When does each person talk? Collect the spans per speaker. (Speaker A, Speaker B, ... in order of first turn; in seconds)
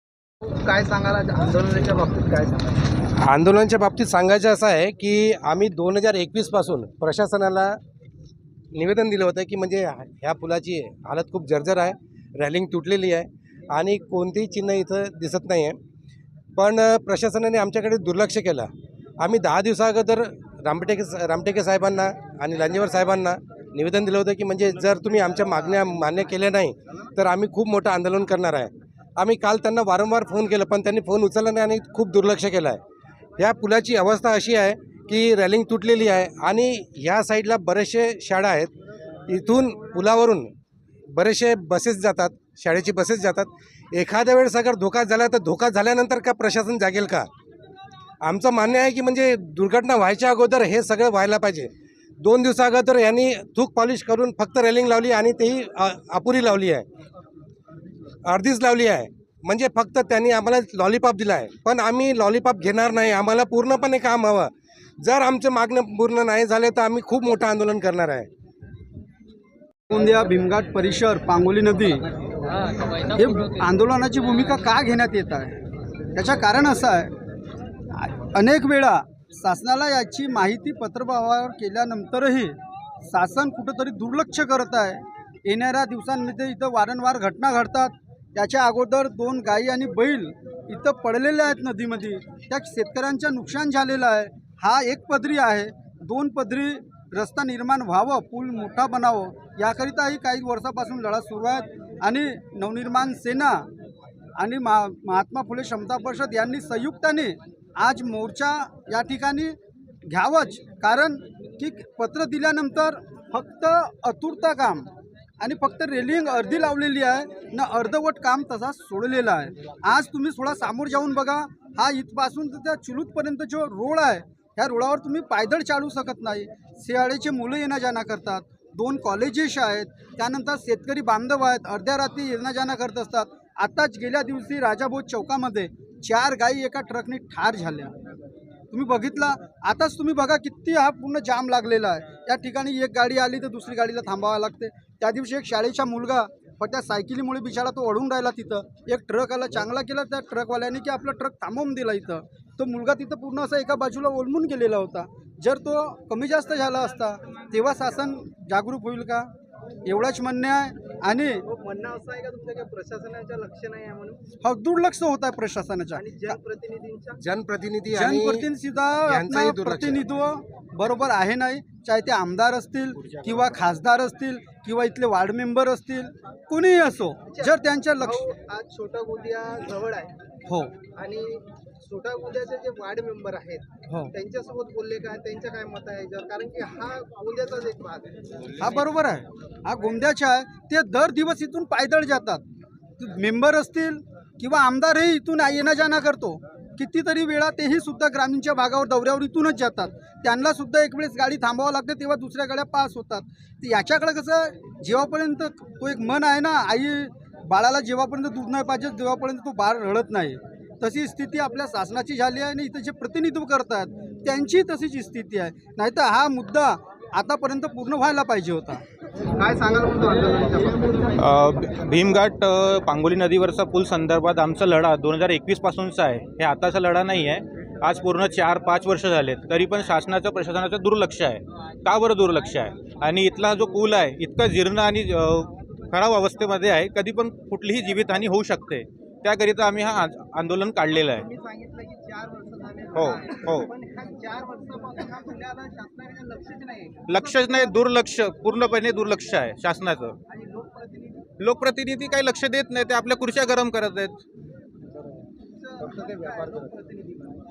Speaker A: 0.4-2.9, 161.5-164.2, 165.9-167.2, 177.3-180.1, 180.9-188.4, 219.3-221.1, 241.2-247.8, 250.3-251.3, 255.5-257.4
Speaker B: 3.1-7.8, 8.7-15.8, 16.6-32.8, 33.4-38.7, 39.3-40.5, 41.1-47.3, 48.2-56.9, 58.2-68.3, 167.2-168.5, 169.1-170.0
Speaker C: 69.9-72.0, 73.0-75.6, 76.1-77.1, 77.9-103.7, 104.4-109.5, 110.1-114.9, 115.4-137.9, 138.7-159.3, 159.8-161.4, 164.4-166.4, 167.9-178.2, 180.5-180.8, 183.9-184.1, 188.6-192.4, 193.0-218.8
Speaker D: 221.2-241.2, 242.9-243.7, 247.1-250.2, 251.4-254.2